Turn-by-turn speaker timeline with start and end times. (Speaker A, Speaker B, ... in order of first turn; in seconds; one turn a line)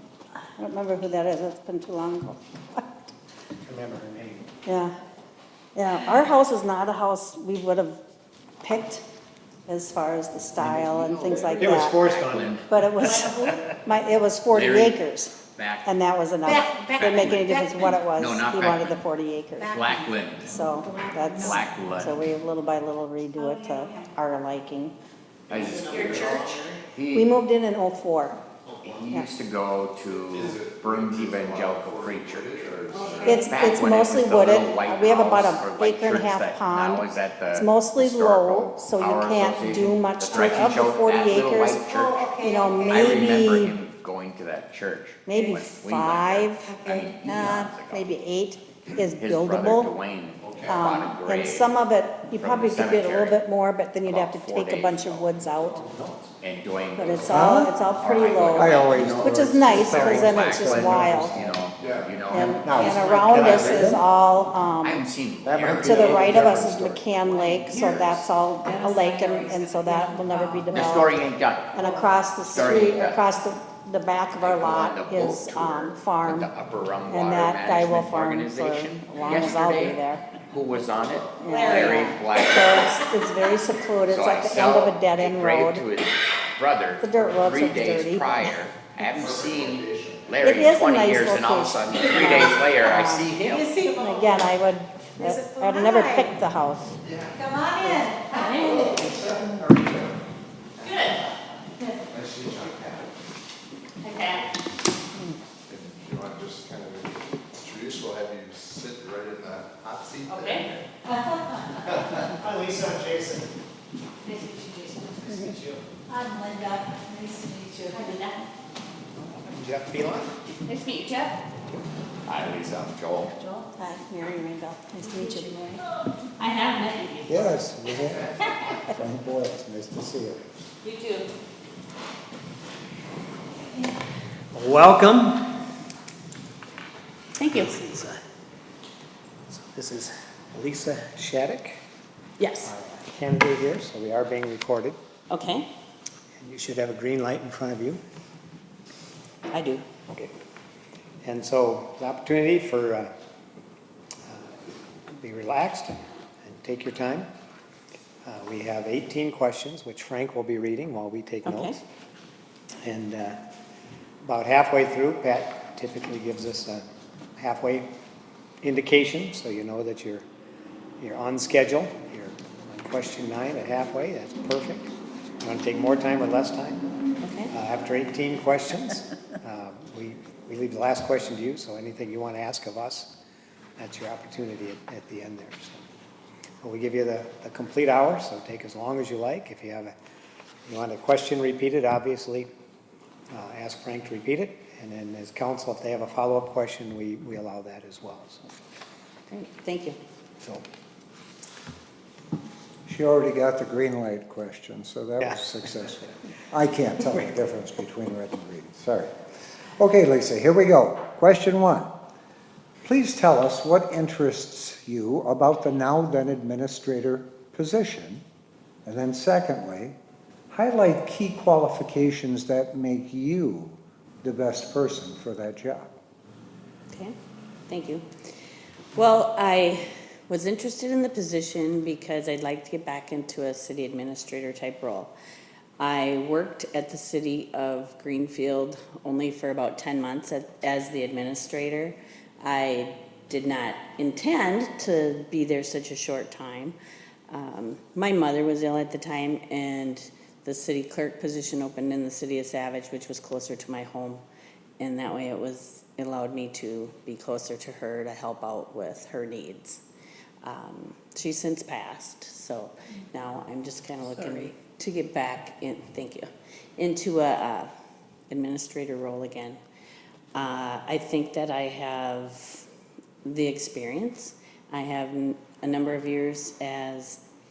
Speaker A: 0.4-3.0
Speaker B: 3.6-4.5
Speaker A: 4.7-4.9
Speaker A: 5.7-8.0
Speaker A: 8.6-9.0
Speaker A: 9.7-12.0
Speaker B: 10.6-10.9
Speaker C: 10.9-12.7
Speaker B: 11.5-13.7
Speaker A: 12.7-19.8
Speaker C: 14.5-15.0
Speaker C: 15.5-15.9
Speaker D: 16.4-17.8
Speaker C: 16.9-17.5
Speaker C: 18.1-19.0
Speaker C: 19.6-20.5
Speaker D: 19.6-20.1
Speaker A: 20.4-24.9
Speaker D: 20.8-21.6
Speaker C: 21.4-22.2
Speaker D: 23.4-24.1
Speaker C: 25.5-27.3
Speaker B: 25.6-26.8
Speaker D: 25.8-26.7
Speaker E: 26.0-26.4
Speaker A: 27.1-28.4
Speaker C: 28.8-32.8
Speaker E: 30.1-33.5
Speaker D: 32.9-33.5
Speaker A: 33.2-41.9
Speaker C: 33.4-48.1
Speaker D: 41.9-43.2
Speaker A: 42.4-43.7
Speaker A: 45.3-49.9
Speaker D: 46.7-47.1
Speaker C: 48.9-51.7
Speaker E: 50.4-50.8
Speaker A: 50.6-55.8
Speaker C: 52.3-53.4
Speaker C: 54.0-55.7
Speaker B: 55.7-56.3
Speaker C: 56.4-64.0
Speaker A: 57.0-61.4
Speaker F: 57.3-57.7
Speaker F: 58.5-61.7
Speaker E: 61.8-62.1
Speaker A: 62.3-65.1
Speaker F: 62.6-64.0
Speaker C: 64.8-66.5
Speaker F: 65.5-67.0
Speaker B: 65.6-66.2
Speaker A: 65.8-71.2
Speaker C: 67.2-68.1
Speaker D: 67.5-68.1
Speaker D: 68.6-71.0
Speaker C: 70.7-71.8
Speaker A: 71.7-76.5
Speaker D: 71.8-72.1
Speaker C: 72.5-73.2
Speaker C: 74.3-82.9
Speaker A: 77.1-80.3
Speaker A: 81.4-85.8
Speaker D: 81.4-82.0
Speaker C: 84.0-93.7
Speaker A: 87.0-88.4
Speaker E: 89.1-90.3
Speaker A: 90.4-97.0
Speaker D: 93.5-94.5
Speaker D: 95.2-96.3
Speaker E: 97.0-97.4
Speaker D: 97.3-99.1
Speaker A: 97.8-98.2
Speaker E: 98.7-100.2
Speaker D: 100.8-101.2
Speaker E: 102.1-103.1
Speaker D: 104.0-104.4
Speaker E: 105.7-110.8
Speaker D: 110.3-111.6
Speaker B: 111.8-113.5
Speaker D: 114.3-115.1
Speaker B: 114.4-115.8
Speaker D: 116.1-118.4
Speaker B: 119.2-120.3
Speaker D: 120.7-121.3
Speaker C: 122.2-123.3
Speaker A: 123.8-125.8
Speaker D: 125.0-125.5
Speaker G: 126.4-127.2
Speaker D: 126.7-127.2
Speaker F: 127.3-128.3
Speaker F: 128.9-130.6
Speaker D: 130.8-131.2
Speaker B: 134.5-135.4
Speaker G: 137.3-137.8
Speaker B: 137.5-138.2
Speaker B: 139.5-141.8
Speaker G: 142.4-142.7
Speaker B: 142.6-145.0
Speaker G: 145.3-145.7
Speaker B: 146.4-148.0
Speaker G: 149.5-149.8
Speaker B: 151.2-153.1
Speaker B: 155.1-157.3
Speaker B: 158.2-161.8
Speaker G: 161.4-161.8
Speaker B: 162.8-163.4
Speaker B: 164.2-166.8
Speaker B: 167.4-167.9
Speaker B: 168.6-170.2
Speaker B: 171.0-176.8
Speaker G: 177.2-177.5
Speaker B: 177.5-183.1
Speaker B: 183.8-185.8
Speaker B: 186.6-189.9
Speaker B: 190.7-192.5
Speaker B: 193.3-198.4
Speaker G: 199.3-200.0
Speaker B: 200.4-200.6
Speaker F: 202.8-209.1
Speaker B: 205.2-205.4
Speaker F: 209.8-211.9
Speaker F: 212.8-218.2
Speaker F: 218.8-219.9
Speaker F: 220.5-225.9
Speaker G: 227.7-228.0
Speaker G: 228.9-235.1
Speaker G: 235.8-246.8
Speaker G: 247.3-254.2
Speaker G: 254.8-259.8
Speaker G: 260.4-267.7
Speaker G: 268.3-269.6
Speaker G: 270.3-272.6
Speaker G: 273.2-277.2